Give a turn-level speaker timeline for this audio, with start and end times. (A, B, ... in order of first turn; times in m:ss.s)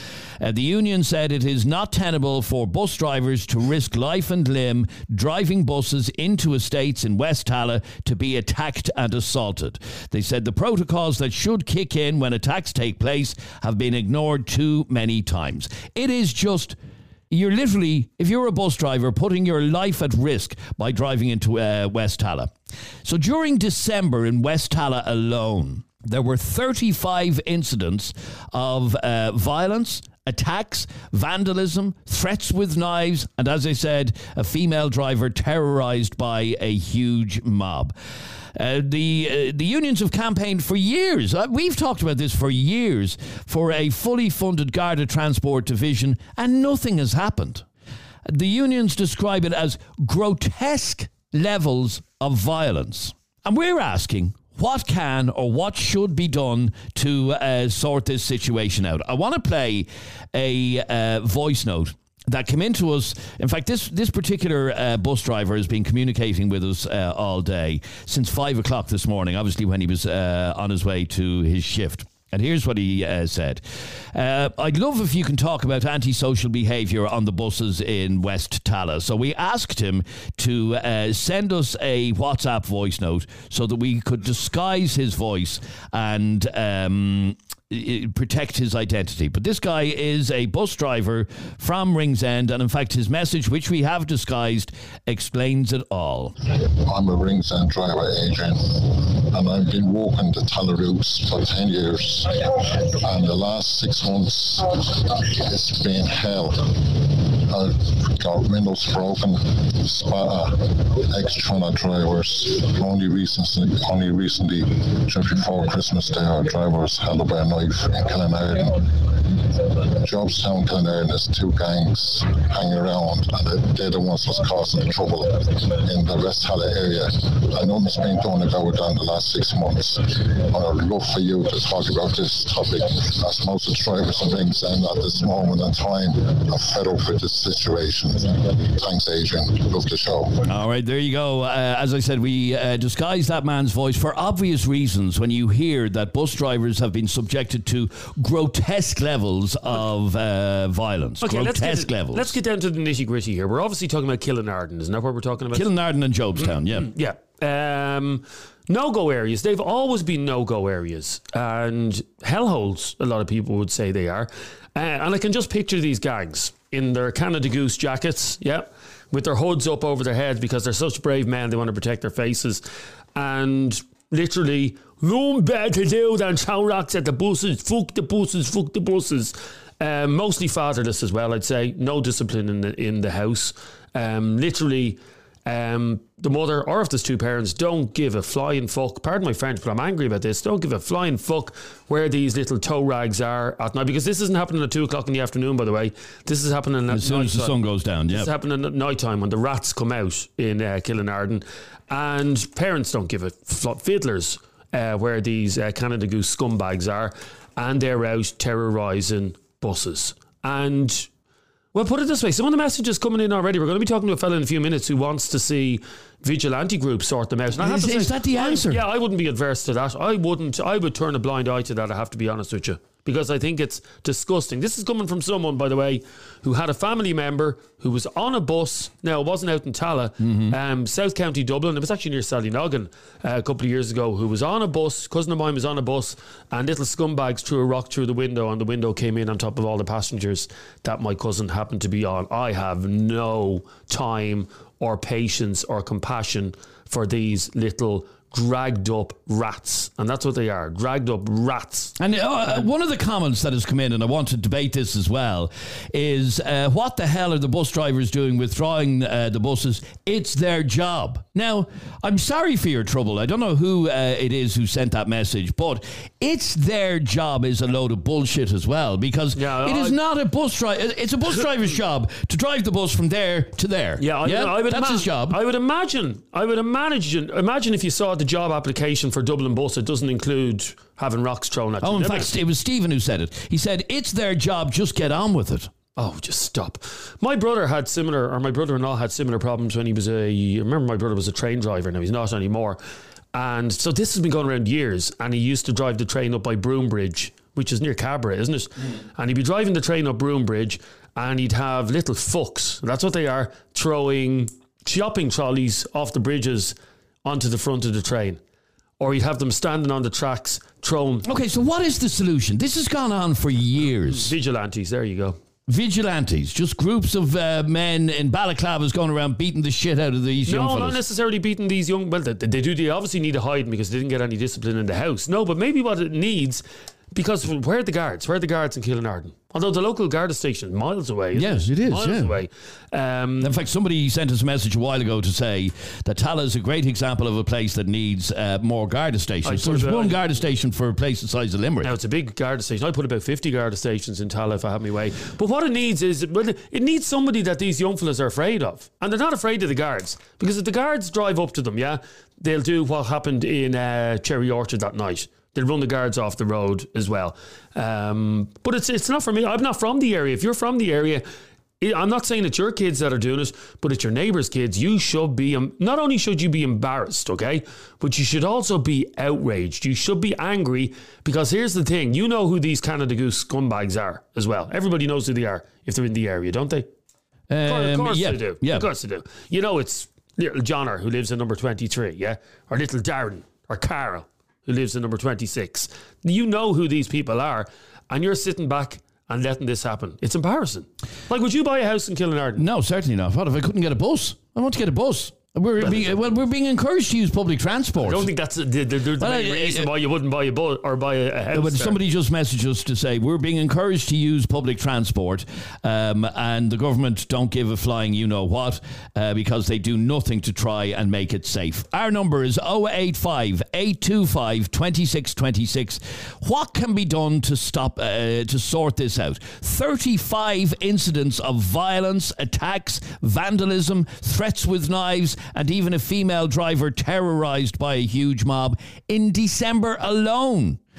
0:00.4-0:16.8 A
0:17.3-0:22.5 A
0:23.0-0:37.9 A
0:38.6-0:47.6 A
0:48.2-1:13.6 A
1:14.1-1:36.4 A
1:36.6-2:20.4 B
2:20.5-2:32.4 A
2:31.2-2:35.7 C
2:35.5-2:36.9 A
2:36.4-2:52.6 C
2:53.1-3:17.6 C
3:16.9-3:18.3 A
3:18.1-3:31.1 C
3:31.7-4:11.9 C
3:37.6-3:38.8 A
3:50.2-3:50.6 A
4:12.0-4:35.4 A
4:29.4-4:30.0 C
4:34.0-4:42.3 C
4:41.8-4:45.7 A
4:46.0-4:52.8 C
4:53.3-5:08.4 C
5:09.0-5:11.2 C
5:11.2-5:14.3 A
5:14.1-5:15.4 C
5:15.7-5:21.0 A
5:20.4-5:33.5 C
5:31.3-5:32.3 A
5:33.4-5:41.9 A
5:39.4-5:40.4 C
5:41.8-6:01.3 C
6:01.8-6:16.9 C
6:17.5-6:18.9 A
6:17.6-6:32.6 C
6:32.6-6:38.3 A
6:35.8-6:36.2 C
6:38.0-6:42.0 C
6:39.2-6:39.9 A
6:41.5-7:10.8 A